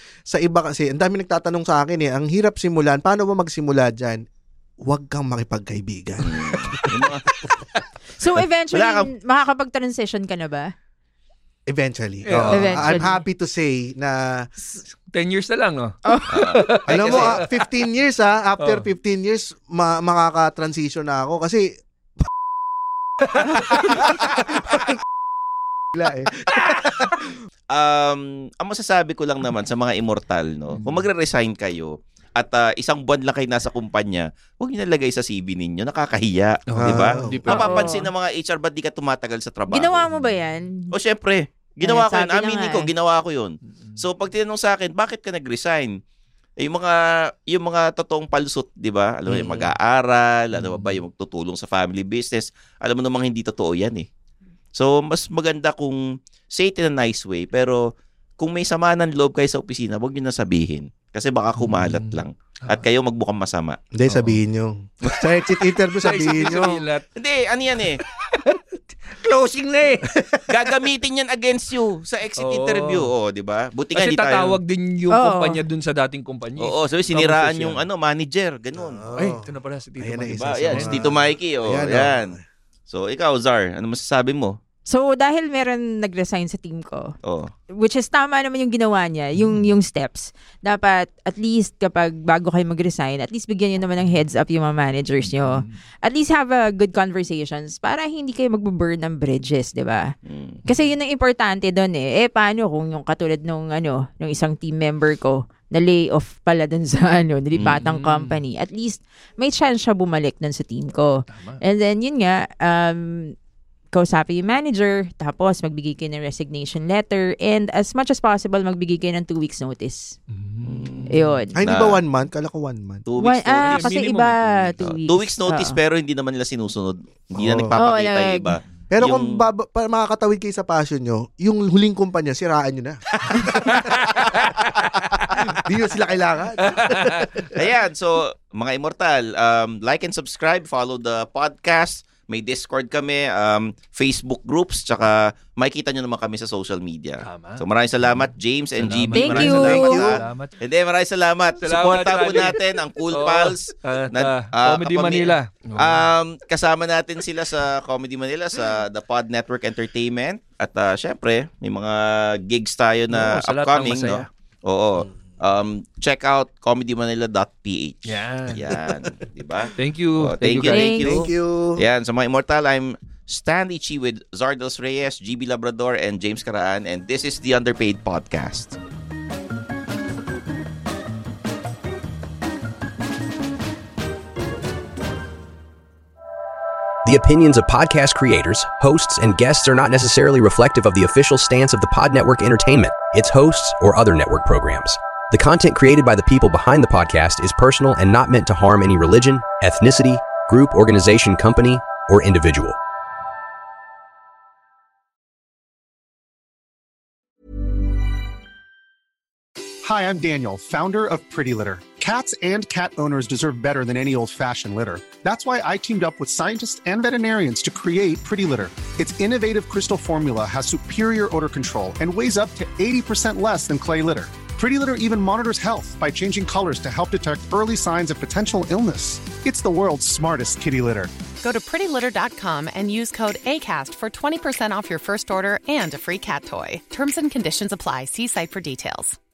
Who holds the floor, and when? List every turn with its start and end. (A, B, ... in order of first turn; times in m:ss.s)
0:00.3-0:04.2 A
0:04.8-0:07.2 A
0:06.2-0:07.3 B
0:08.2-0:10.7 C
0:08.7-0:09.1 B
0:11.7-0:14.5 A
0:12.2-0:13.2 D
0:12.5-0:13.2 C
0:15.1-0:17.6 D
0:16.1-0:16.4 C
0:16.3-0:17.4 B
0:16.9-0:21.7 A
0:18.6-0:18.9 D
0:23.6-0:24.6 A
0:26.0-0:27.2 A
0:27.7-0:40.1 B
0:30.7-0:31.1 D
0:36.7-0:38.0 D
0:36.8-0:37.4 A
0:37.5-0:38.0 C
0:39.7-0:40.9 C
0:40.9-0:46.0 B
0:41.8-0:42.9 C
0:43.6-0:44.0 D
0:46.6-0:54.1 B
0:50.5-0:51.0 D
0:54.7-0:57.8 B
0:58.4-1:03.8 B
1:01.6-1:02.8 D
1:04.0-1:06.8 A
1:04.1-1:04.4 D
1:05.8-1:07.1 D
1:07.2-1:08.0 B
1:08.3-1:10.1 D
1:10.5-1:14.6 B
1:12.4-1:13.1 D
1:14.0-1:17.8 D
1:15.1-1:15.6 C
1:16.6-1:19.2 B
1:18.8-1:22.4 A
1:19.2-1:21.1 D
1:20.4-1:22.3 B
1:22.9-1:24.6 B
1:24.9-1:27.1 C
1:27.2-1:27.5 B
1:27.7-1:40.1 C
1:29.4-1:29.7 D
1:35.4-1:35.8 D
1:40.3-1:40.6 B
1:40.7-1:53.4 C
1:47.6-1:48.4 D
1:51.3-1:51.6 D
1:53.9-2:00.2 C
2:00.3-2:01.4 D
2:00.6-2:01.1 B
2:01.1-2:01.6 C
2:01.6-2:03.1 A
2:01.6-2:02.0 B
2:03.1-2:04.0 B
2:03.2-2:05.8 C
2:03.6-2:04.9 D
2:04.8-2:09.4 B
2:07.4-2:07.7 A
2:07.8-2:08.5 C
2:08.9-2:14.0 A
2:13.9-2:14.7 D
2:15.5-2:17.4 A
2:16.6-2:17.4 D
2:17.6-2:58.8 B
2:27.2-2:27.6 D
2:28.8-2:30.6 D
2:29.1-2:30.1 C
2:29.5-2:30.2 A
2:31.6-2:36.1 D
2:43.1-2:44.3 D
2:48.0-2:48.6 D
2:49.8-2:51.2 D
2:50.7-2:51.2 C
2:51.0-2:51.8 A
3:07.0-3:22.8 E
3:29.8-3:51.1 F
3:51.4-3:59.2 G